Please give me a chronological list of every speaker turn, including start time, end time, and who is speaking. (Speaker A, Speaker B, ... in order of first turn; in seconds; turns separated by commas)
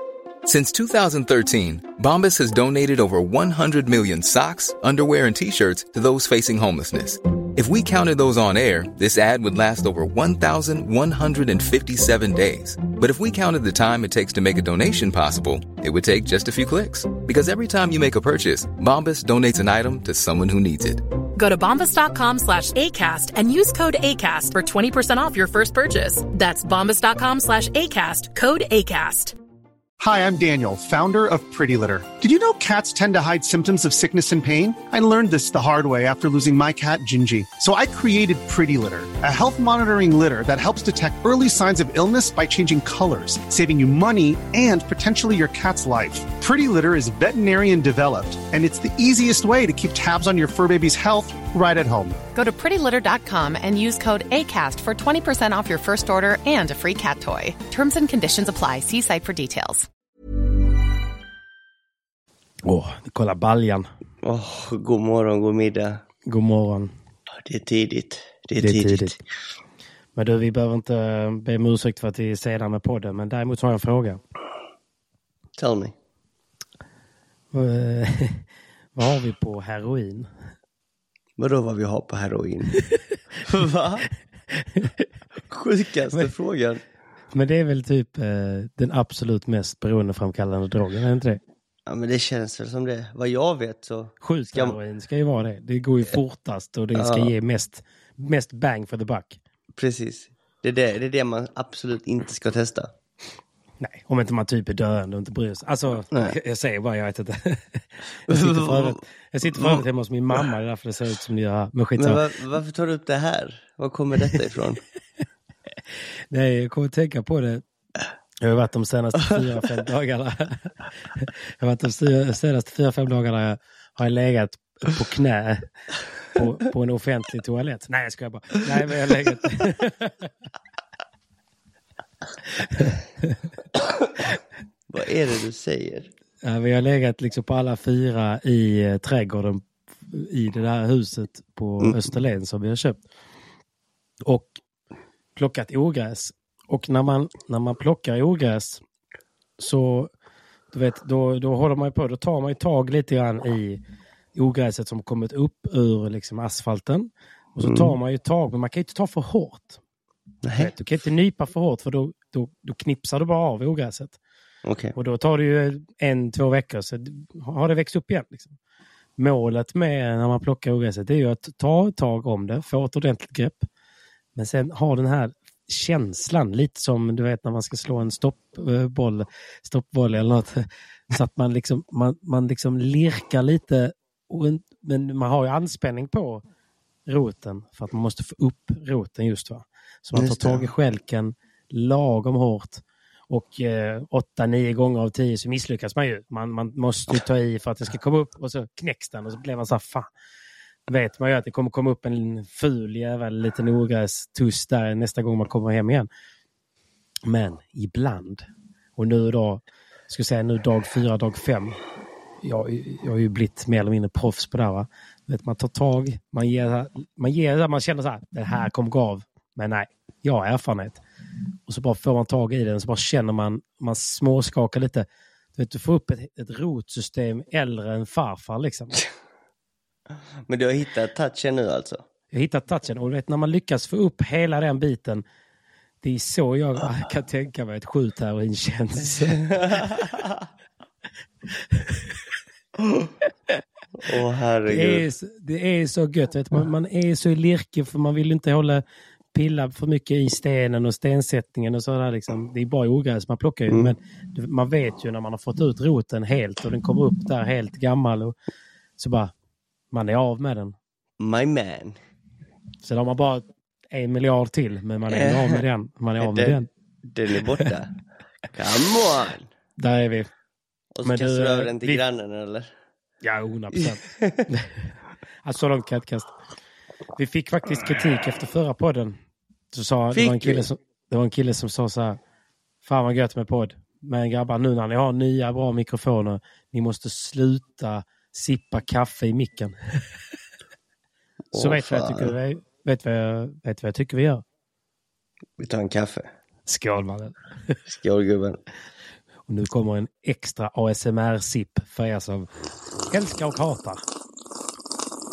Speaker A: 0.4-21.0, Speaker B: 21.4-29.3, Speaker C: 30.0-52.2, Speaker D: 52.3-59.9, Speaker E: 62.6-63.9, Speaker F: 64.2-66.0, Speaker E: 66.3-66.9, Speaker F: 67.3-69.2, Speaker E: 68.6-69.2, Speaker E: 70.2-74.2, Speaker F: 75.6-75.9, Speaker E: 77.5-78.4, Speaker E: 79.0-80.3, Speaker F: 81.4-82.8, Speaker F: 83.4-84.1, Speaker E: 84.5-85.0, Speaker F: 85.5-86.8, Speaker E: 87.3-91.4, Speaker F: 91.8-94.8, Speaker E: 94.2-99.4, Speaker F: 96.9-97.3, Speaker F: 99.7-102.9, Speaker E: 103.8-112.2, Speaker F: 108.3-109.0, Speaker F: 109.5-109.8, Speaker F: 112.0-114.8, Speaker E: 116.3-117.6, Speaker E: 118.4-125.7, Speaker E: 126.3-130.3, Speaker E: 132.7-133.3, Speaker F: 133.8-134.1, Speaker F: 134.9-136.1, Speaker E: 136.4-143.0, Speaker F: 141.8-142.1, Speaker E: 144.2-144.5, Speaker E: 145.3-148.8, Speaker E: 149.6-150.1, Speaker E: 150.7-153.8, Speaker E: 154.3-159.8, Speaker F: 157.6-157.9, Speaker F: 160.4-160.7, Speaker E: 160.6-164.2, Speaker F: 164.6-164.9, Speaker E: 164.9-168.6, Speaker E: 169.2-173.7, Speaker E: 174.3-186.4, Speaker E: 187.1-200.1, Speaker F: 190.1-190.7, Speaker E: 200.9-206.1, Speaker E: 207.2-211.8, Speaker E: 212.4-221.0, Speaker E: 221.7-229.0, Speaker F: 230.5-232.0, Speaker E: 232.3-235.2, Speaker E: 236.0-239.4, Speaker F: 239.3-240.5, Speaker E: 241.7-242.0, Speaker F: 244.0-245.1, Speaker E: 244.7-248.8, Speaker E: 249.3-258.3, Speaker F: 253.7-253.9, Speaker E: 259.0-259.3, Speaker E: 259.9-260.8, Speaker F: 261.2-262.0, Speaker E: 262.8-266.7, Speaker F: 265.1-265.6, Speaker F: 266.2-267.9, Speaker F: 268.5-269.5, Speaker E: 269.8-270.3, Speaker F: 270.9-272.7, Speaker E: 271.0-272.0, Speaker E: 273.2-274.7, Speaker F: 273.8-274.4, Speaker E: 275.4-276.3, Speaker E: 277.1-279.2, Speaker E: 279.7-282.2, Speaker F: 280.1-280.6, Speaker E: 282.8-289.8, Speaker F: 291.5-292.4, Speaker E: 291.5-294.4, Speaker F: 295.6-296.3, Speaker E: 296.6-297.8, Speaker F: 297.9-298.6, Speaker E: 299.5-302.5, Speaker E: 303.1-304.0